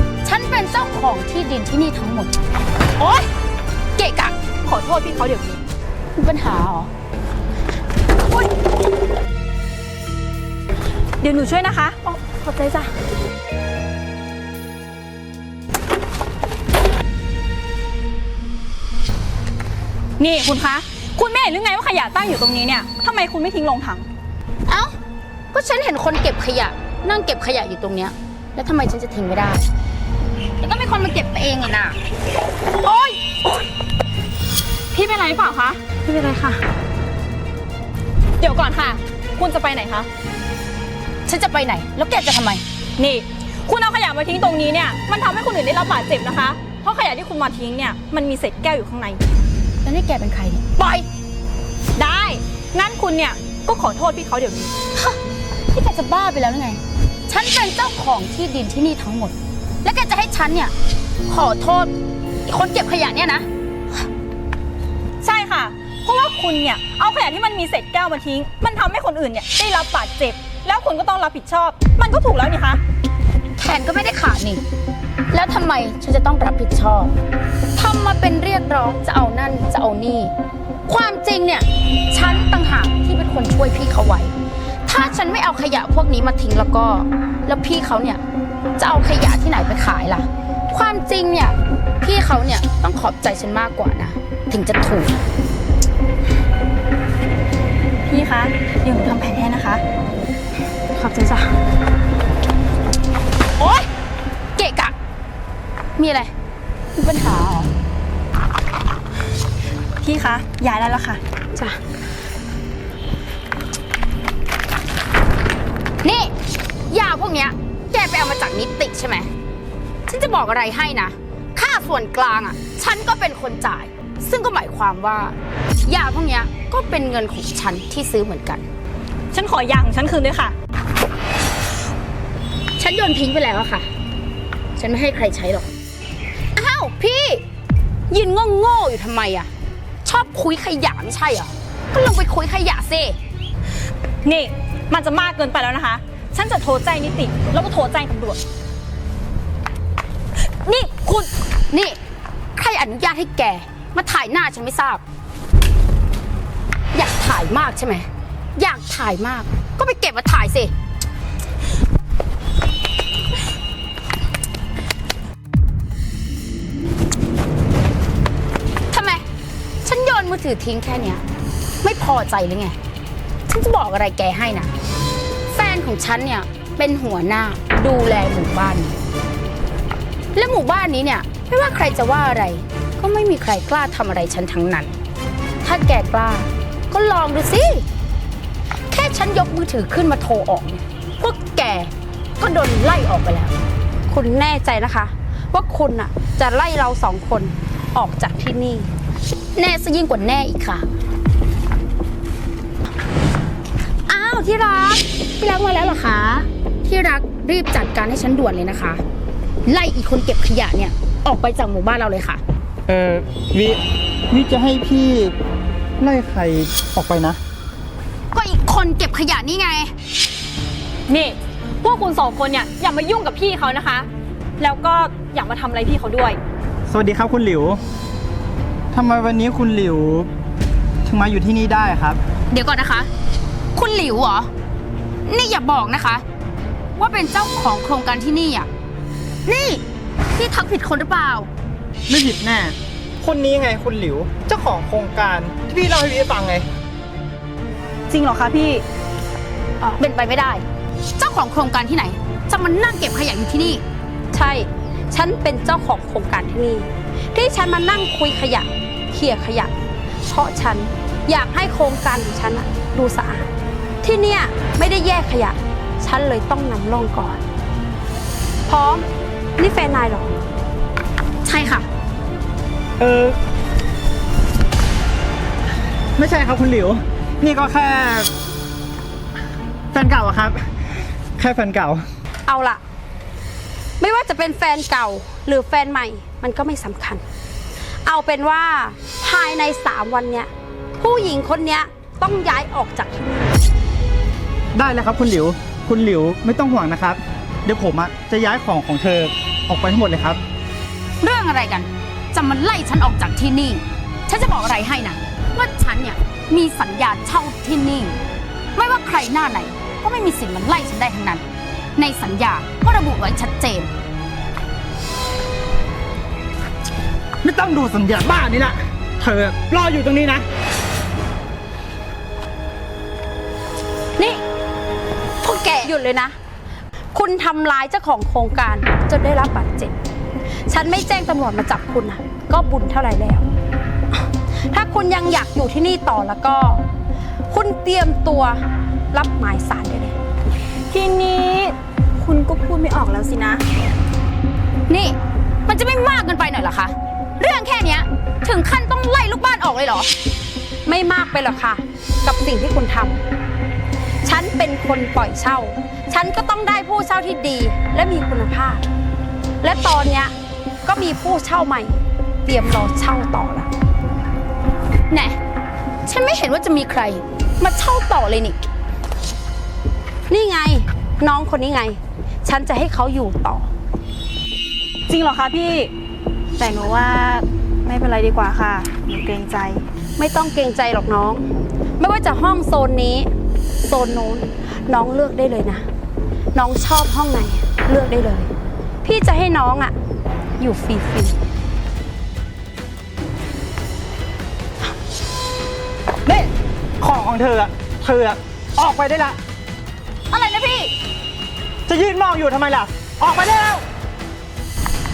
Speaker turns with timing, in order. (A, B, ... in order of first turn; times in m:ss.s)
0:00.2-0:02.3 A
0:03.0-0:03.2 A
0:04.0-0:04.3 A
0:04.6-0:05.6 B
0:06.2-0:06.9 A
0:11.2-0:12.9 B
0:20.2-0:24.0 B
0:24.7-0:24.9 A
0:25.5-0:29.6 A
0:30.6-0:32.0 A
0:32.8-0:33.2 A
0:34.9-0:35.8 B
0:36.0-0:36.6 A
0:38.4-0:40.1 B
0:41.2-0:42.6 A
0:43.0-0:49.2 B
0:49.8-0:51.1 A
0:52.0-0:54.7 B
0:54.9-1:00.7 A
1:01.2-1:01.9 A
1:02.4-1:03.5 A
1:05.2-1:12.8 B
1:13.6-1:14.6 A
1:15.3-1:17.1 A
1:17.7-1:20.3 A
1:20.9-1:24.3 A
1:24.8-1:28.2 A
1:28.8-1:35.2 A
1:38.1-1:39.8 B
1:41.0-1:41.3 C
1:43.6-1:43.9 A
1:44.6-1:44.9 A
1:46.0-1:46.3 A
1:46.9-1:47.7 A
1:50.0-1:51.2 B
1:56.0-1:56.3 A
1:56.9-1:59.3 A
2:00.1-2:08.6 A
2:09.3-2:10.5 B
2:12.8-2:13.9 A
2:14.8-2:15.7 A
2:16.5-2:17.4 A
2:18.1-2:19.5 A
2:20.0-2:23.2 A
2:24.2-2:28.4 B
2:30.6-2:32.0 A
2:32.5-2:35.0 A
2:36.9-2:40.7 A
2:48.9-2:49.2 A
2:49.8-2:51.2 A
2:51.8-2:52.8 A
2:53.5-2:54.7 A
2:55.5-2:58.9 A
3:00.3-3:04.9 A
3:05.6-3:07.8 A
3:08.9-3:13.5 A
3:14.1-3:18.9 C
3:19.5-3:20.8 A
3:24.1-3:29.0 A
3:29.6-3:32.4 A
3:32.9-3:35.4 D
3:36.0-3:37.4 D
3:38.3-3:39.9 A
3:41.1-3:44.1 B
3:44.6-3:46.4 B
3:46.9-3:47.8 D
3:48.9-3:50.3 D
3:51.0-3:52.2 D
3:52.5-3:53.1 A
3:53.7-3:54.5 A
3:55.2-3:56.2 A
3:57.0-3:58.7 A
3:59.4-3:59.8 A
4:00.3-4:01.5 A
4:02.1-4:06.7 D
4:08.1-4:08.8 B
4:09.8-4:10.6 A
4:11.2-4:13.8 A
4:14.3-4:19.7 C
4:20.3-4:23.5 C
4:24.0-4:27.4 C
4:28.7-4:29.0 C
4:29.6-4:30.4 C
4:31.4-4:31.9 A
4:33.0-4:33.4 D
4:36.2-4:38.3 D
4:39.9-4:40.7 D
4:41.4-4:42.0 D
4:42.5-4:42.8 C
4:44.0-4:47.2 C
4:48.0-4:53.6 C
4:54.7-5:00.4 D
5:01.2-5:08.2 A
5:08.7-5:11.4 A
5:12.0-5:13.9 A
5:17.4-5:20.4 D
5:25.4-5:25.8 A
5:25.8-5:26.3 C
5:27.1-5:29.9 C
5:30.7-5:33.4 C
5:34.7-5:36.8 C
5:37.5-5:38.6 C
5:39.1-5:40.1 C
5:40.9-5:43.6 B
5:44.9-5:50.1 A
5:50.8-5:53.2 C
5:54.2-5:58.8 C
5:59.6-6:00.3 C
6:00.8-6:03.7 C
6:05.1-6:05.4 A
6:06.0-6:08.7 A
6:10.3-6:13.7 C
6:15.1-6:15.9 B
6:16.6-6:19.8 B
6:20.2-6:21.4 C
6:22.0-6:23.3 C
6:23.8-6:25.8 C
6:26.5-6:28.5 C
6:29.0-6:29.9 C
6:30.6-6:31.4 C
6:36.2-6:39.4 D
6:40.3-6:40.9 B
6:41.9-6:43.8 D